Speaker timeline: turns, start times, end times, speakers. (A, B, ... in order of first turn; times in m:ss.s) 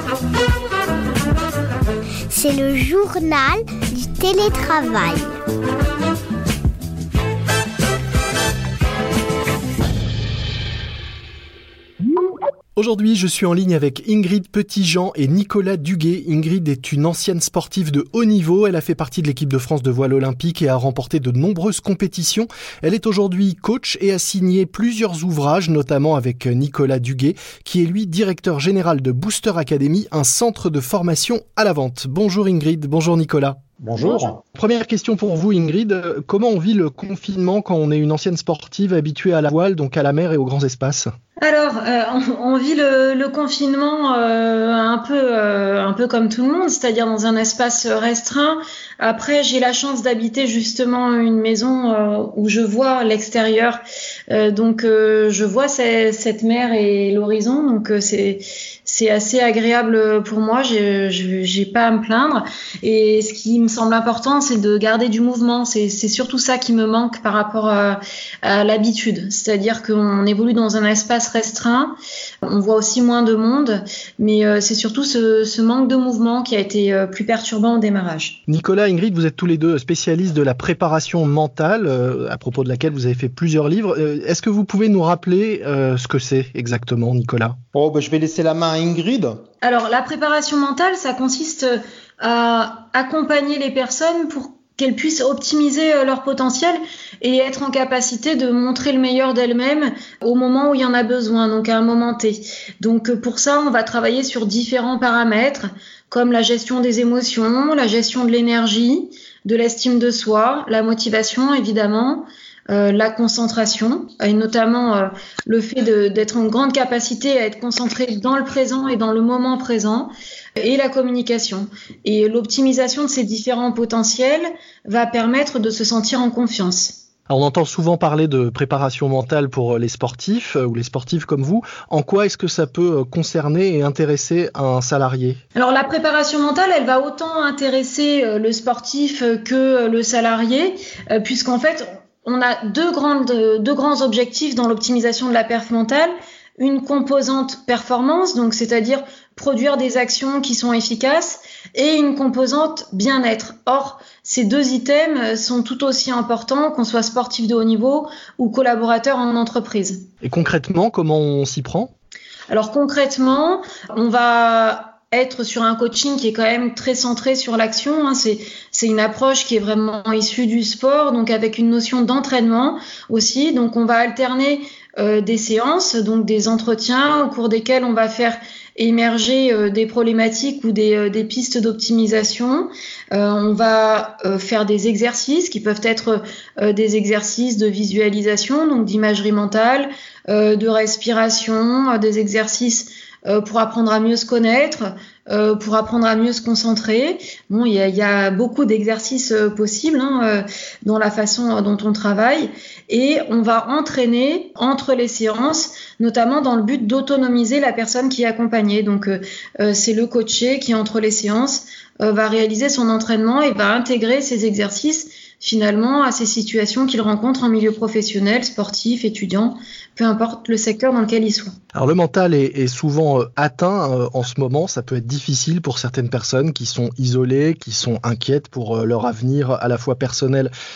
0:02.3-0:05.3 A
0:12.8-0:33.6 B
0:33.8-0:34.4 C
0:34.5-0:41.1 B
0:41.4-1:18.4 D
1:18.5-1:27.6 B
1:27.7-1:29.4 C
1:29.6-2:07.0 D
2:07.3-2:15.4 B
2:15.5-2:40.0 D
2:40.2-2:41.9 B
2:42.5-3:41.5 D
3:41.7-3:50.5 B